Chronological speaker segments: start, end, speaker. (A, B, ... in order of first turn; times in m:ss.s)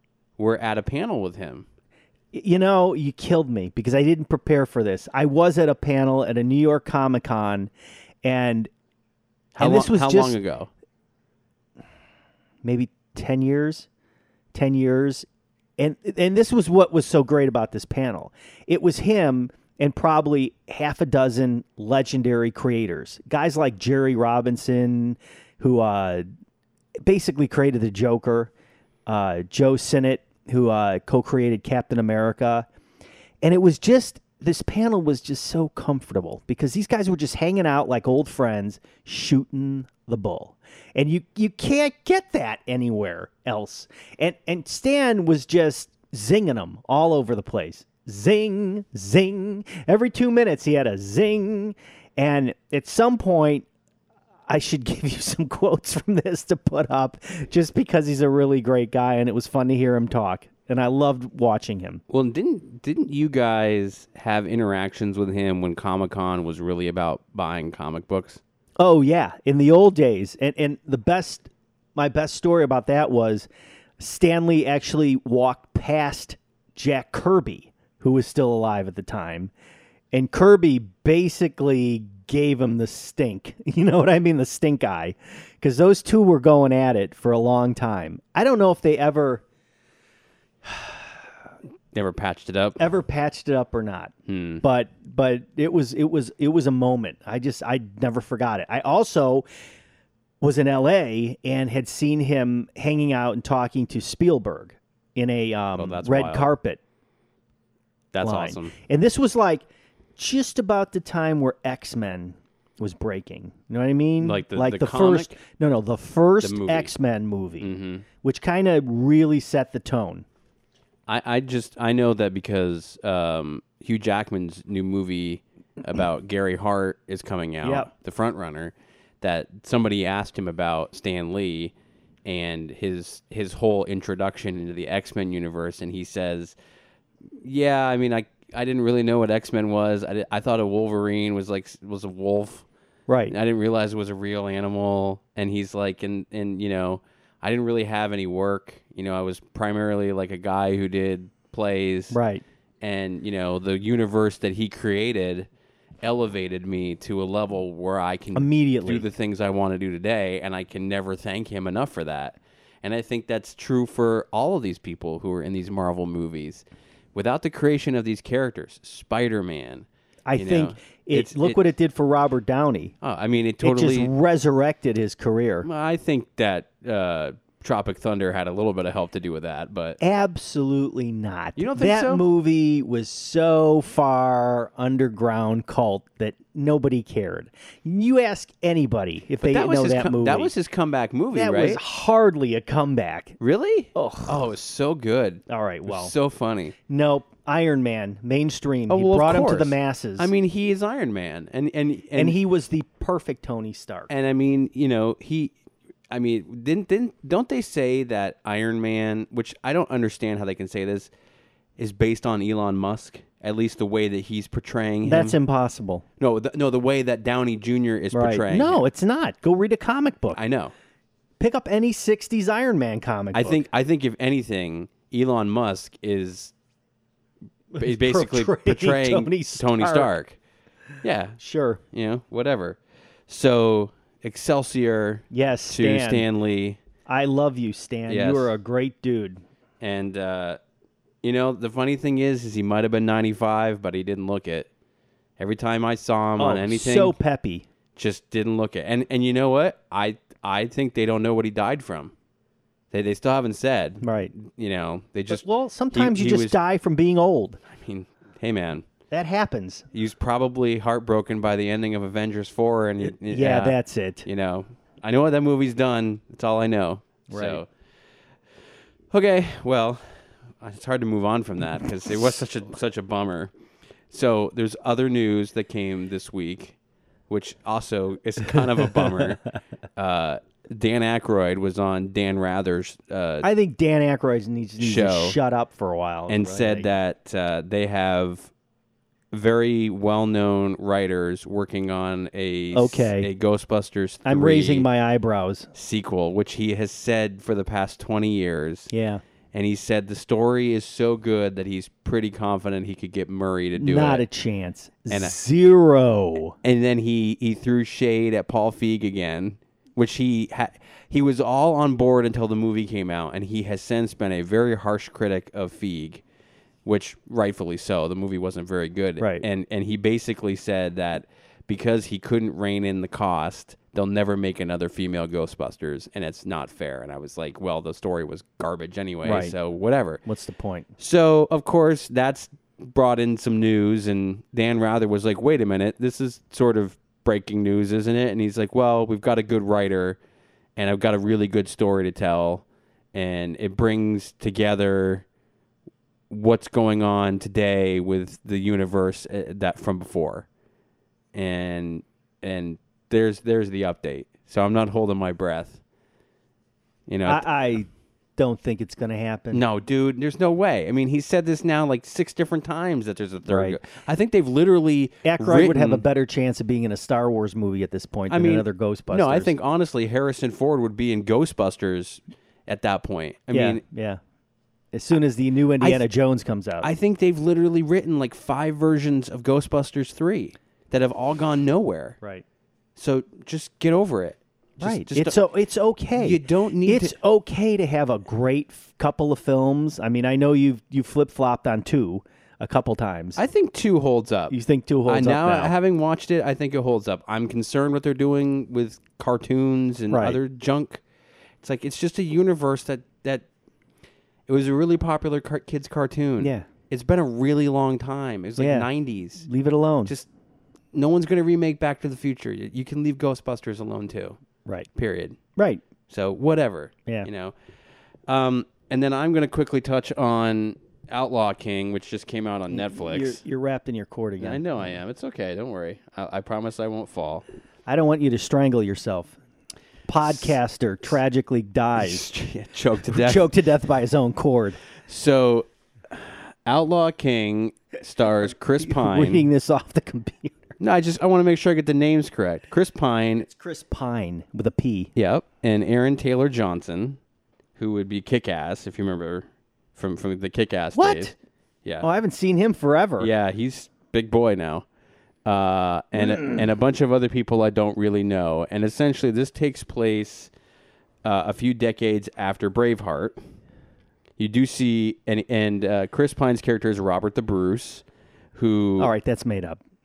0:00.4-0:01.7 A
0:02.3-0:07.7 B
0:08.2-0:08.7 B
0:09.6-0:10.7 A
0:09.6-0:10.4 B
0:12.6-0:13.9 B
0:14.5-0:15.3 B
0:15.8-0:26.3 B
0:27.0-0:28.5 B
0:29.1-0:32.7 B
0:33.4-0:53.7 B
0:54.5-1:02.0 B
1:02.1-1:08.4 A
1:08.8-1:13.5 B
1:14.0-1:19.5 B
1:20.1-1:29.4 B
1:31.9-1:32.8 A
1:32.8-1:39.5 B
1:34.3-1:34.6 A
1:40.4-1:46.8 B
1:45.8-1:46.5 A
1:48.1-1:48.8 A
1:48.2-1:49.6 B
1:50.2-2:00.2 B
1:54.2-1:55.4 A
1:56.4-1:56.9 A
1:57.6-1:58.1 A
2:01.1-2:11.7 A
2:07.6-2:07.9 B
2:12.2-2:16.6 A
2:17.4-2:22.6 A
2:23.1-2:23.4 B
2:23.3-2:32.2 A
2:32.1-2:32.4 B
2:32.8-2:35.5 A
2:36.0-2:51.6 A
2:38.4-2:39.0 B
2:50.3-2:53.0 B
2:53.0-2:54.1 A
2:53.6-2:55.7 B
2:55.6-3:00.0 A
3:00.0-3:10.5 B
3:01.6-3:02.2 A
3:09.4-3:11.8 A
3:11.3-3:13.4 B
3:13.4-3:16.8 A
3:14.0-3:14.4 B
3:15.5-3:16.1 B
3:16.9-3:20.3 B
3:18.9-3:22.4 A
3:22.2-3:24.1 B
3:24.1-3:25.5 A
3:26.1-3:31.1 A
3:31.8-3:35.4 A
3:35.0-3:36.0 B
3:36.2-3:38.8 A
3:38.1-3:40.4 B
3:40.3-3:40.7 A
3:41.4-3:43.6 B
3:43.3-3:46.5 A
3:47.7-3:50.1 B
3:47.8-3:50.4 A
3:51.0-3:51.4 A
3:51.4-3:51.8 B
3:51.9-3:56.8 A
3:55.3-3:56.3 B
3:57.1-3:59.4 B
3:58.1-3:58.5 A
3:59.8-4:00.6 A
4:01.2-4:04.7 A
4:05.4-4:07.2 A
4:06.4-4:07.7 B
4:08.0-4:12.1 A
4:12.9-4:16.6 A
4:14.0-4:14.3 B
4:15.3-4:17.6 B
4:17.6-4:18.9 A
4:19.1-4:19.9 B
4:19.9-4:27.7 A
4:23.0-4:24.3 B
4:27.3-4:27.6 B
4:29.1-4:33.5 A
4:34.1-4:36.8 A
4:37.3-4:39.4 A
4:40.0-4:43.5 A
4:43.4-4:46.9 B
4:44.8-4:45.4 A
4:46.3-4:48.5 A
4:49.3-4:54.9 A
4:52.7-4:53.3 B
4:54.2-4:55.7 B
4:55.7-4:58.9 A
4:58.9-4:59.2 B
4:59.5-5:04.2 A
5:03.8-5:06.6 B
5:05.1-5:05.4 A
5:06.6-5:16.2 A
5:16.8-5:30.2 A
5:19.2-5:19.4 B
5:29.2-5:29.5 B
5:30.3-5:30.9 B
5:31.0-5:40.2 A
5:40.8-5:45.3 A
5:46.3-5:50.5 A
5:51.3-5:55.8 A
5:57.1-5:57.5 A
5:57.3-5:59.6 B
5:59.5-6:06.0 A
6:03.5-6:03.8 B
6:05.2-6:09.5 B
6:08.3-6:13.8 A
6:13.5-6:14.2 B
6:14.9-6:16.9 B
6:16.8-6:22.2 A
6:23.0-6:25.4 A
6:24.8-6:33.4 B
6:26.2-6:27.2 A
6:33.4-6:34.6 A
6:34.5-6:35.7 B
6:35.1-6:41.0 A
6:40.1-6:40.4 B
6:41.6-6:43.4 A
6:44.5-6:49.5 A
6:46.4-6:46.7 B
6:48.6-6:48.9 B
6:49.5-6:50.1 B
6:50.9-6:54.4 A
6:55.0-6:55.4 A
6:55.6-6:55.8 B
6:56.1-6:57.5 A
6:58.3-7:03.4 A
7:02.7-7:04.6 B
7:04.4-7:07.4 A
7:07.9-7:09.4 B
7:10.1-7:12.3 B
7:12.0-7:13.5 A
7:13.1-7:14.8 B
7:15.1-7:19.5 A
7:18.8-7:20.7 B
7:20.8-7:23.5 A
7:23.4-7:25.1 B
7:25.2-7:27.2 A
7:27.8-7:31.3 A
7:31.0-7:31.3 B
7:32.0-7:33.3 B
7:33.2-7:34.9 A
7:35.4-7:40.5 A
7:41.2-7:43.4 A
7:44.4-7:49.1 A
7:49.0-7:49.8 B